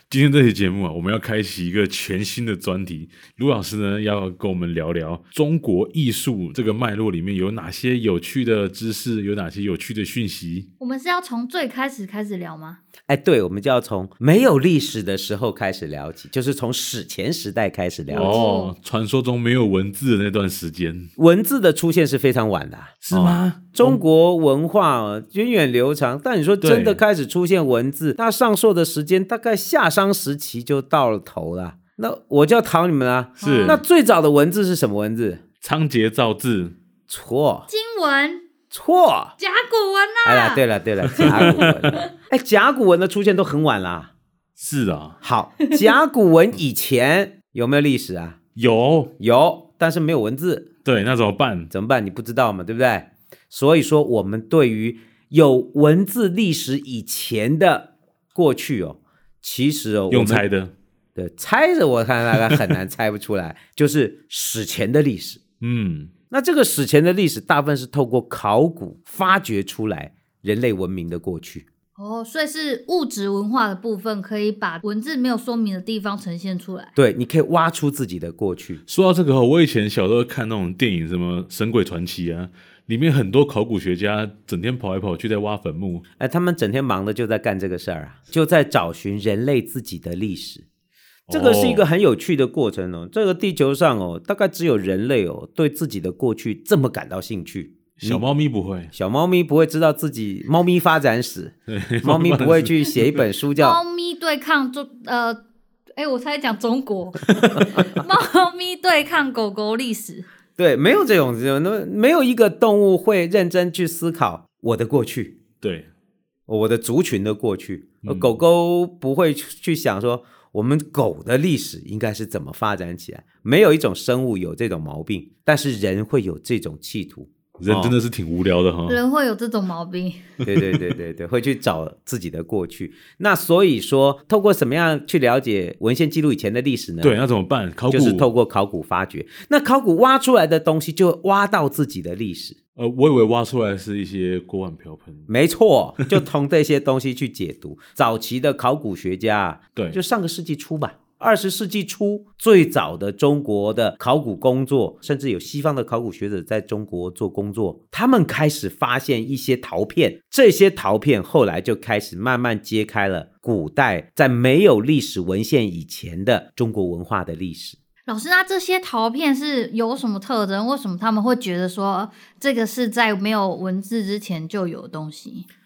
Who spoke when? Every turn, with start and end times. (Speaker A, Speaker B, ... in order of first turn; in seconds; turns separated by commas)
Speaker A: 0.1-10.7, Speaker B: 10.8-12.8, Speaker C: 13.1-18.4, Speaker B: 18.1-18.7, Speaker A: 18.1-21.1, Speaker C: 21.2-35.4, Speaker A: 23.0-24.0, Speaker A: 26.6-27.0, Speaker A: 33.4-33.8, Speaker B: 33.4-33.8, Speaker A: 35.6-36.8, Speaker C: 37.1-37.7, Speaker B: 37.7-38.5, Speaker C: 38.7-39.4, Speaker B: 39.4-40.6, Speaker C: 40.2-44.1, Speaker A: 41.1-41.9, Speaker B: 41.2-42.0, Speaker A: 44.6-45.2, Speaker C: 45.2-48.4, Speaker A: 48.5-49.1, Speaker C: 49.2-50.7, Speaker A: 50.8-51.7, Speaker C: 51.7-60.4, Speaker A: 60.1-60.7, Speaker C: 61.2-65.4, Speaker A: 65.6-66.1, Speaker C: 66.3-71.7, Speaker B: 72.0-76.9, Speaker C: 77.0-78.8, Speaker A: 78.9-86.0, Speaker C: 86.2-90.6, Speaker A: 91.3-91.8, Speaker C: 91.3-98.2, Speaker A: 98.0-98.9, Speaker C: 98.9-103.8, Speaker A: 101.7-103.2, Speaker B: 103.6-105.4, Speaker B: 106.0-110.2, Speaker C: 107.4-107.7, Speaker C: 110.6-115.4, Speaker A: 115.6-115.9, Speaker C: 116.5-127.9, Speaker A: 118.0-118.3, Speaker A: 127.6-129.0, Speaker B: 128.9-130.2, Speaker C: 130.4-137.2, Speaker A: 130.5-130.8, Speaker A: 137.0-138.3, Speaker C: 137.9-142.6, Speaker A: 142.8-145.2, Speaker C: 145.3-167.8, Speaker B: 168.1-175.4